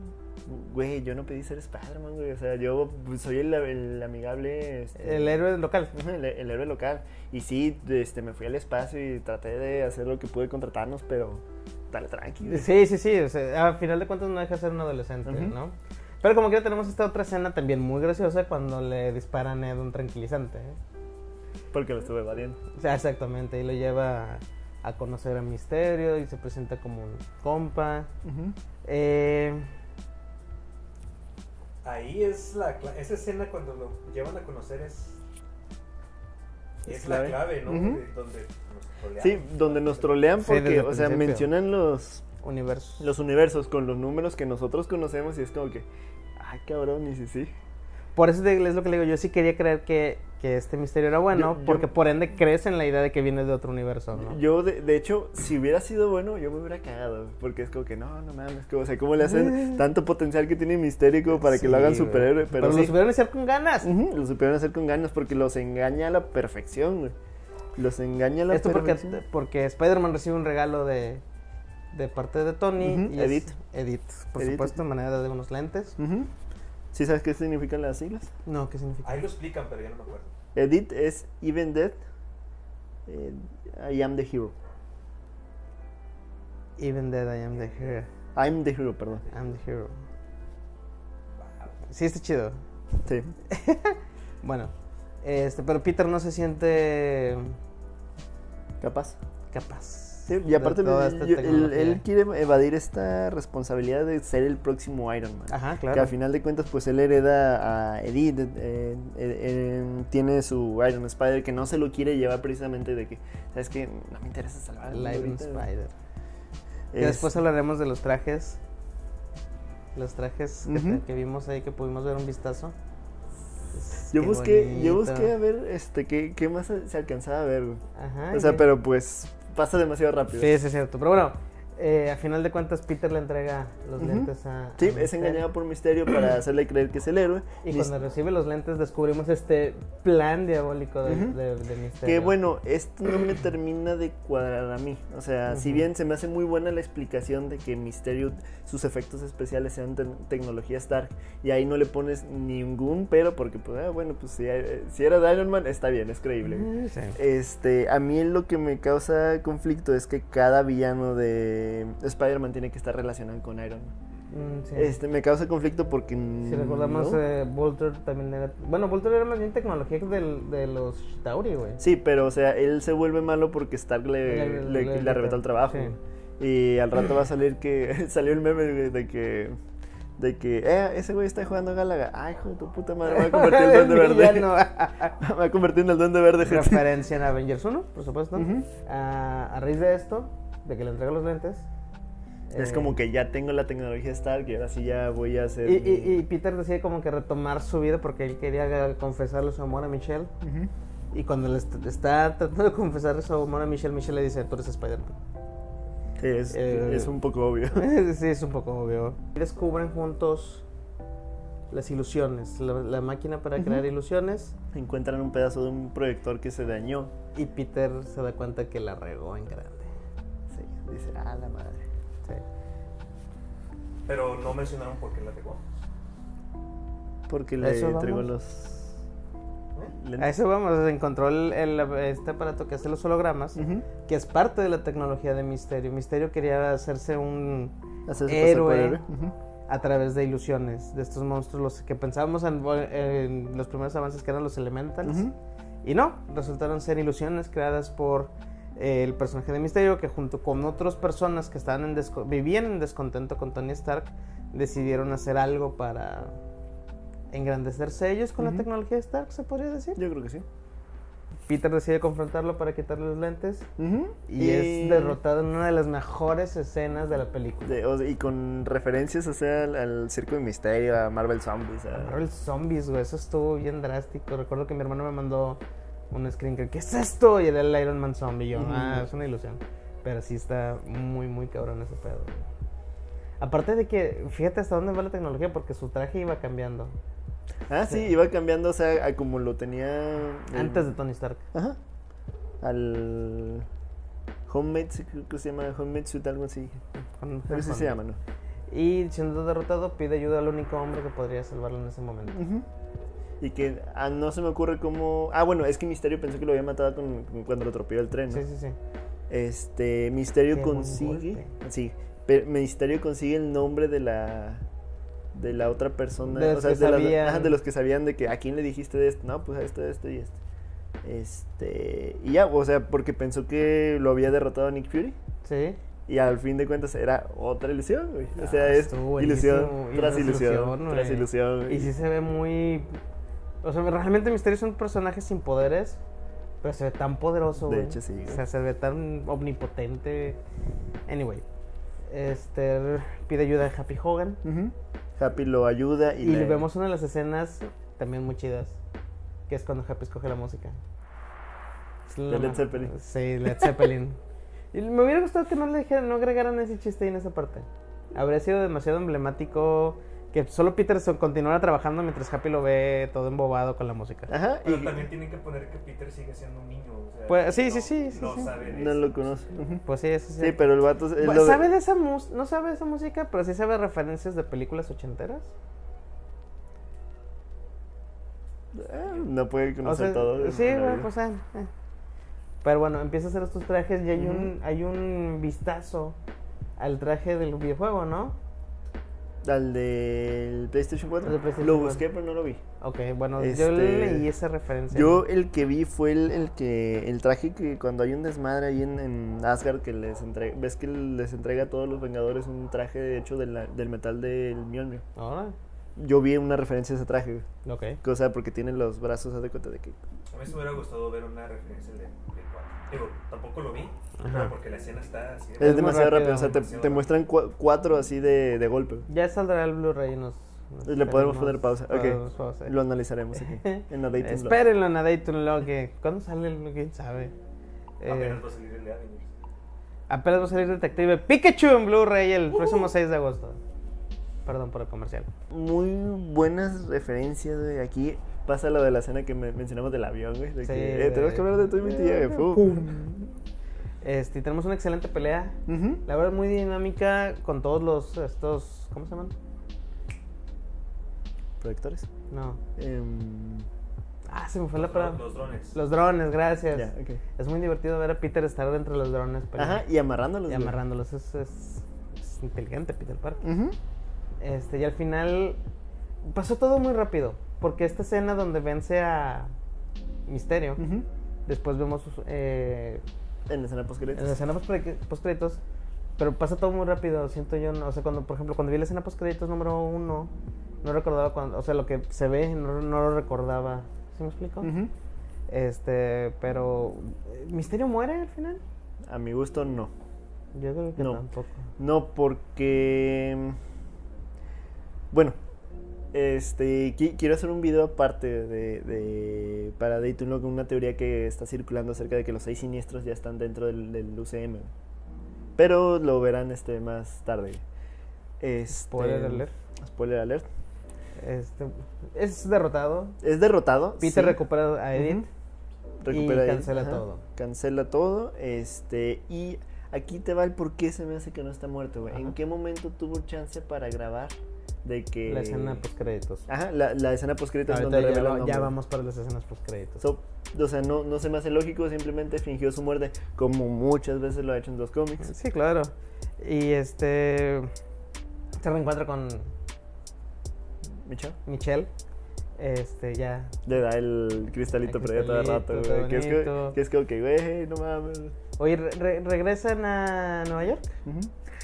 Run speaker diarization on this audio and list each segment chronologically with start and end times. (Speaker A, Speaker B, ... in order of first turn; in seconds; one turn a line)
Speaker A: 0.5-5.4
Speaker B: 5.0-5.9
Speaker A: 5.9-12.7
Speaker B: 12.4-20.8
Speaker A: 15.3-15.5
Speaker A: 21.7-22.6
Speaker B: 22.8-28.1
Speaker A: 28.2-28.6
Speaker B: 28.9-29.7
Speaker C: 31.8-35.2
Speaker C: 36.9-40.1
Speaker A: 36.9-38.0
Speaker B: 37.0-37.4
Speaker A: 39.2-42.3
Speaker B: 40.4-41.5
Speaker B: 42.4-43.1
Speaker A: 43.0-45.9
Speaker A: 46.4-47.5
Speaker B: 48.1-54.4
Speaker A: 51.3-51.9
Speaker A: 54.2-63.0
Speaker B: 59.3-59.8
Speaker B: 61.3-63.9
Speaker A: 63.8-67.2
Speaker A: 67.8-69.2
Speaker B: 68.5-71.2
Speaker B: 71.9-76.0
Speaker A: 72.8-73.5
Speaker A: 74.4-74.8
Speaker A: 76.0-76.3
Speaker A: 76.9-78.3
Speaker B: 78.5-79.3
Speaker C: 79.0-80.3
Speaker A: 80.5-82.0
Speaker A: 83.1-84.5
Speaker B: 86.8-88.1
Speaker A: 88.3-89.3
Speaker B: 89.3-90.0
Speaker C: 91.4-91.8
Speaker B: 91.9-92.6
Speaker A: 93.0-93.3
Speaker B: 93.5-97.6
Speaker A: 98.8-99.2
Speaker B: 99.5-102.0
Speaker A: 100.3-115.7
Speaker B: 105.5-106.1
Speaker B: 114.9-115.9
Speaker A: 116.9-117.3
Speaker B: 117.0-118.6
Speaker B: 120.0-122.8
Speaker A: 120.7-121.0
Speaker B: 123.7-125.3
Speaker A: 124.1-127.8
Speaker B: 128.0-128.7
Speaker A: 128.3-130.5
Speaker B: 130.4-135.4
Speaker A: 134.0-137.9
Speaker B: 137.6-142.4
Speaker A: 141.1-141.3
Speaker A: 142.0-163.9
Speaker B: 145.5-145.8
Speaker B: 156.4-157.2
Speaker B: 164.3-164.9
Speaker A: 164.8-167.2
Speaker B: 166.4-171.8
Speaker A: 171.8-179.6
Speaker B: 174.3-176.0
Speaker A: 180.2-184.5
Speaker B: 183.1-185.2
Speaker A: 185.2-186.8
Speaker B: 186.4-191.7
Speaker A: 188.3-188.7
Speaker B: 192.5-193.0
Speaker A: 192.6-196.2
Speaker B: 195.6-200.3
Speaker A: 200.4-200.7
Speaker B: 201.1-205.2
Speaker A: 206.2-207.8
Speaker B: 206.5-207.1
Speaker B: 207.8-210.7
Speaker B: 211.7-214.5
Speaker A: 214.7-217.1
Speaker B: 217.3-219.9
Speaker A: 220.5-221.8
Speaker C: 224.1-225.7
Speaker A: 227.3-229.0
Speaker B: 227.6-228.3
Speaker A: 229.9-230.3
Speaker B: 230.2-237.7
Speaker A: 233.6-233.9
Speaker A: 238.1-239.3
Speaker B: 238.3-239.0
Speaker B: 239.7-245.2
Speaker A: 245.0-245.4
Speaker B: 245.8-256.4
Speaker B: 257.3-260.0
Speaker A: 258.4-258.6
Speaker A: 260.0-260.4
Speaker B: 261.5-263.7
Speaker A: 263.8-265.2
Speaker B: 264.3-267.8
Speaker A: 267.6-272.2
Speaker B: 271.9-282.4
Speaker A: 278.5-279.1
Speaker B: 283.4-287.0
Speaker A: 287.7-290.9
Speaker B: 290.5-291.4
Speaker A: 291.5-291.8
Speaker A: 292.6-293.7
Speaker A: 294.5-296.8
Speaker B: 297.1-297.9
Speaker A: 297.5-298.2
Speaker B: 298.7-302.4
Speaker A: 302.3-302.7
Speaker A: 303.4-308.4
Speaker B: 308.3-308.8
Speaker A: 309.3-314.6
Speaker B: 310.5-311.5
Speaker A: 315.3-320.4
Speaker B: 316.3-317.6
Speaker A: 321.0-325.2
Speaker B: 325.4-325.8
Speaker A: 326.1-331.9
Speaker B: 328.4-333.0
Speaker B: 333.6-336.0
Speaker B: 336.6-340.4
Speaker A: 337.6-338.4
Speaker B: 341.1-341.4
Speaker B: 342.1-344.4
Speaker A: 344.4-346.6
Speaker B: 346.2-348.8
Speaker B: 349.5-350.8
Speaker B: 352.1-354.2
Speaker A: 352.3-352.9
Speaker B: 354.7-364.3
Speaker A: 364.3-365.1
Speaker C: 364.6-369.4
Speaker B: 367.3-368.5
Speaker A: 368.4-369.9
Speaker B: 369.9-370.6
Speaker A: 370.4-371.7
Speaker B: 371.2-375.5
Speaker A: 378.7-381.1
Speaker B: 379.8-381.7
Speaker B: 382.6-386.2
Speaker A: 384.2-384.5
Speaker B: 386.8-388.4
Speaker A: 389.4-392.6
Speaker B: 391.2-392.0
Speaker B: 392.8-395.2
Speaker A: 393.4-394.3
Speaker A: 394.9-405.1
Speaker B: 405.2-405.6
Speaker A: 406.0-407.5
Speaker B: 407.6-408.0
Speaker A: 408.0-410.0
Speaker C: 410.3-417.1
Speaker B: 414.2-414.5
Speaker A: 415.6-419.1
Speaker B: 415.6-416.6
Speaker B: 419.1-422.7
Speaker A: 420.9-424.6
Speaker B: 423.3-427.3
Speaker B: 428.0-428.4
Speaker C: 428.1-429.3
Speaker B: 430.1-433.6
Speaker B: 434.4-435.3
Speaker A: 435.5-442.9
Speaker B: 440.6-443.4
Speaker B: 444.0-449.3
Speaker A: 445.7-446.0
Speaker A: 451.6-452.1
Speaker B: 452.3-452.6
Speaker A: 452.8-453.7
Speaker B: 454.3-459.8
Speaker C: 454.8-455.8
Speaker A: 456.7-457.2
Speaker A: 459.6-460.8
Speaker B: 460.5-463.4
Speaker A: 463.4-463.8
Speaker B: 464.4-465.6
Speaker B: 466.2-469.5
Speaker B: 470.3-470.8
Speaker A: 470.8-471.1
Speaker B: 471.5-473.0
Speaker A: 473.5-474.3
Speaker B: 474.1-475.6
Speaker B: 476.2-480.3
Speaker B: 480.8-484.7
Speaker A: 484.6-484.9
Speaker B: 485.5-488.6
Speaker A: 489.1-489.9
Speaker B: 490.5-491.6
Speaker A: 491.0-491.2
Speaker A: 491.8-493.6
Speaker A: 495.1-495.4
Speaker A: 496.1-504.7
Speaker A: 505.6-507.6
Speaker A: 508.4-510.5
Speaker B: 508.7-509.5
Speaker B: 511.2-513.2
Speaker A: 513.2-514.4
Speaker B: 514.0-515.2
Speaker A: 514.9-515.3
Speaker A: 516.0-525.8
Speaker B: 516.1-517.2
Speaker B: 525.3-526.5
Speaker A: 526.5-528.7
Speaker B: 527.7-530.0
Speaker A: 530.0-535.3
Speaker B: 535.2-537.7
Speaker B: 538.6-539.5
Speaker A: 541.0-541.4
Speaker B: 541.5-541.9
Speaker B: 542.6-543.5
Speaker A: 543.7-548.4
Speaker B: 544.9-546.8
Speaker B: 548.6-550.9
Speaker A: 551.0-551.3